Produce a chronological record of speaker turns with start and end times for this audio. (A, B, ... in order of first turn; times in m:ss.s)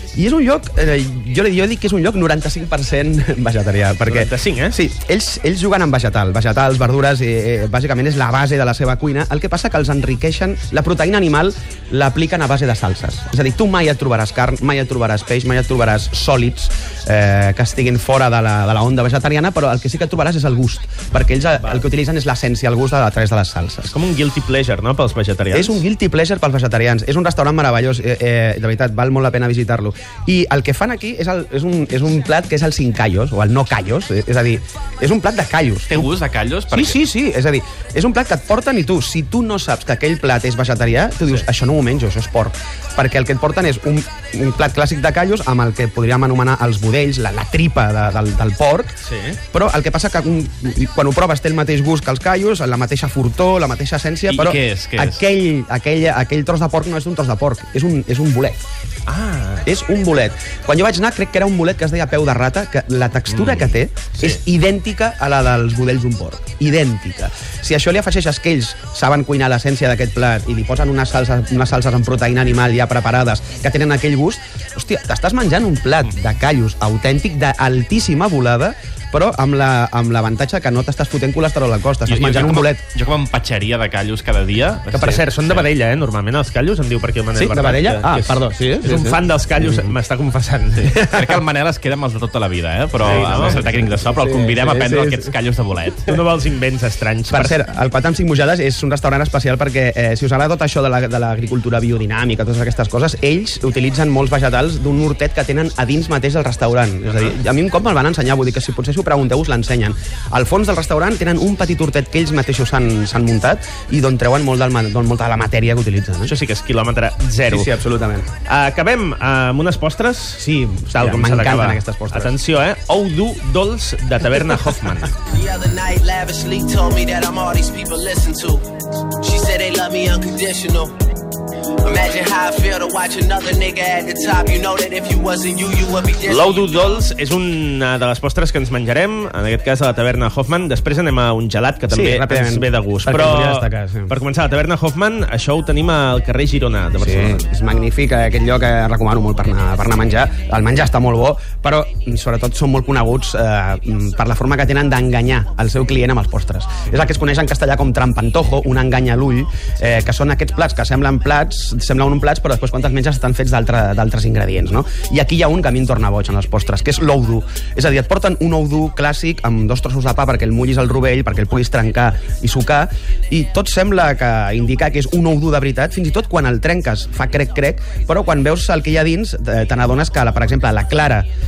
0:00.2-0:23.9 A
0:04.0-0:04.8 B
0:23.9-0:25.8 B
0:25.5-0:36.0 A
0:35.9-0:37.0 C
0:36.7-0:48.9 A
0:49.0-0:49.4 B
0:49.5-0:58.6 A
0:54.3-0:55.2 C
0:59.1-0:59.7 B
0:59.6-1:22.8 A
1:03.3-1:04.4 B
1:22.0-1:25.7 C
1:24.9-1:25.2 A
1:24.9-1:31.2 B
1:27.3-1:29.9 A
1:31.0-1:36.2 C
1:33.0-1:35.3 A
1:33.0-1:33.6 B
1:36.1-1:37.6 B
1:37.3-1:56.3 A
1:56.2-1:57.7 B
1:57.5-1:58.3 A
1:58.4-2:05.2 B
2:00.4-2:02.3 A
2:05.3-2:11.0 D
2:11.8-2:16.8 D
2:16.2-2:27.4 B
2:21.9-2:24.1 A
2:27.0-3:01.2 A